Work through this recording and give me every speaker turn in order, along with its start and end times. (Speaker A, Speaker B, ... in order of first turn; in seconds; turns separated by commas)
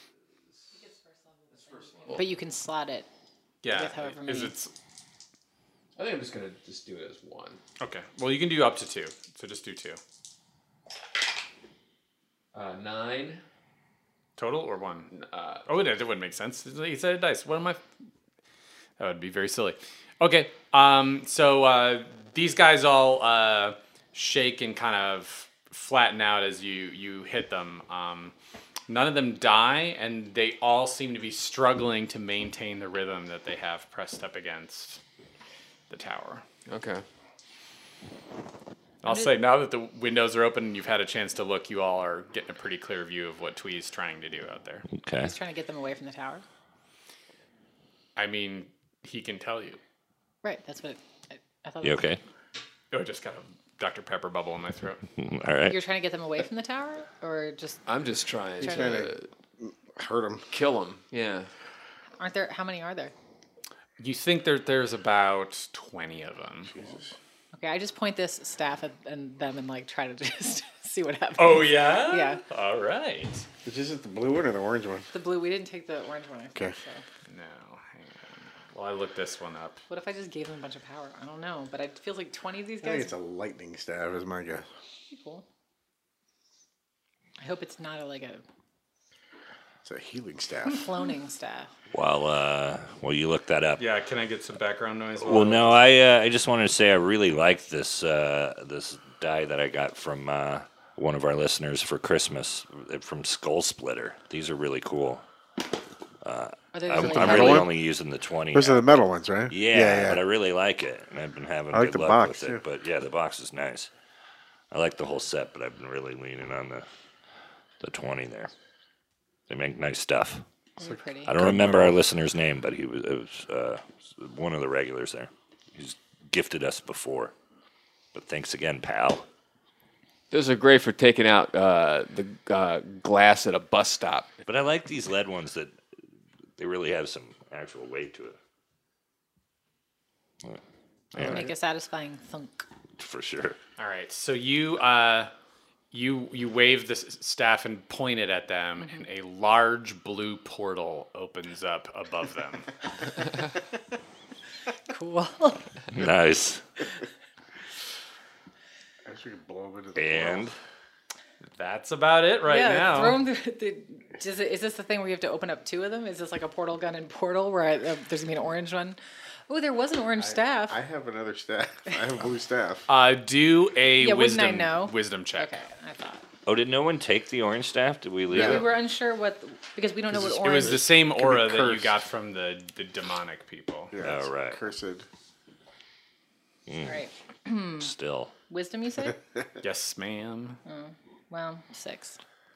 Speaker A: 0.7-3.1, Speaker B: 1.5-2.2, Speaker C: 3.6-4.7, Speaker A: 3.7-4.5, Speaker B: 6.0-7.6, Speaker C: 7.8-10.0, Speaker B: 12.5-13.4, Speaker C: 14.4-15.1, Speaker B: 15.1-15.6, Speaker C: 15.7-17.8, Speaker C: 19.0-28.3, Speaker C: 28.9-35.0, Speaker C: 35.9-36.4, Speaker B: 36.7-37.0, Speaker C: 39.0-44.9, Speaker A: 39.0-39.4, Speaker D: 45.0-45.3, Speaker A: 45.2-46.4, Speaker C: 48.1-49.8, Speaker A: 50.4-52.0, Speaker D: 51.8-52.2, Speaker C: 52.9-55.0, Speaker D: 55.2-55.8, Speaker A: 55.7-57.8, Speaker B: 57.9-59.3, Speaker E: 58.6-60.5, Speaker A: 58.6-58.9, Speaker B: 60.5-61.5, Speaker A: 62.2-63.1, Speaker C: 64.0-66.7, Speaker E: 66.7-67.1, Speaker A: 67.5-72.4, Speaker C: 71.4-73.5, Speaker E: 73.6-75.1, Speaker A: 75.1-77.0, Speaker C: 77.3-79.8, Speaker A: 79.9-83.1, Speaker E: 82.8-84.7, Speaker A: 85.1-85.4, Speaker A: 87.4-88.4, Speaker E: 89.8-90.9, Speaker A: 90.7-91.7, Speaker D: 91.9-93.8, Speaker C: 93.8-95.8, Speaker D: 95.2-105.2, Speaker D: 106.2-108.8, Speaker A: 106.7-107.7, Speaker E: 107.0-107.7, Speaker E: 108.5-110.2, Speaker D: 109.5-113.9, Speaker E: 111.7-112.6, Speaker D: 114.7-116.8, Speaker D: 117.8-118.5, Speaker D: 119.5-120.4, Speaker A: 120.8-121.3, Speaker E: 120.8-122.0, Speaker D: 121.2-127.3, Speaker D: 128.1-129.2, Speaker B: 130.3-134.4, Speaker D: 134.5-135.8, Speaker D: 136.6-138.4, Speaker D: 141.1-141.4, Speaker A: 141.2-142.7, Speaker D: 143.0-143.6, Speaker C: 143.8-145.3, Speaker C: 145.9-152.7, Speaker A: 154.9-155.7, Speaker D: 155.9-156.6, Speaker E: 159.0-160.4, Speaker D: 159.9-160.6, Speaker C: 161.5-163.2, Speaker A: 162.4-170.8, Speaker E: 170.2-172.9, Speaker C: 172.9-175.5, Speaker A: 174.0-176.2, Speaker D: 176.4-178.7, Speaker A: 178.3-180.8, Speaker E: 180.1-181.9, Speaker C: 180.4-183.9, Speaker E: 183.9-185.1, Speaker D: 184.0-184.6, Speaker D: 186.7-187.0, Speaker A: 186.8-187.9, Speaker D: 187.8-188.3, Speaker A: 188.5-189.2, Speaker C: 189.6-190.6, Speaker A: 190.6-192.2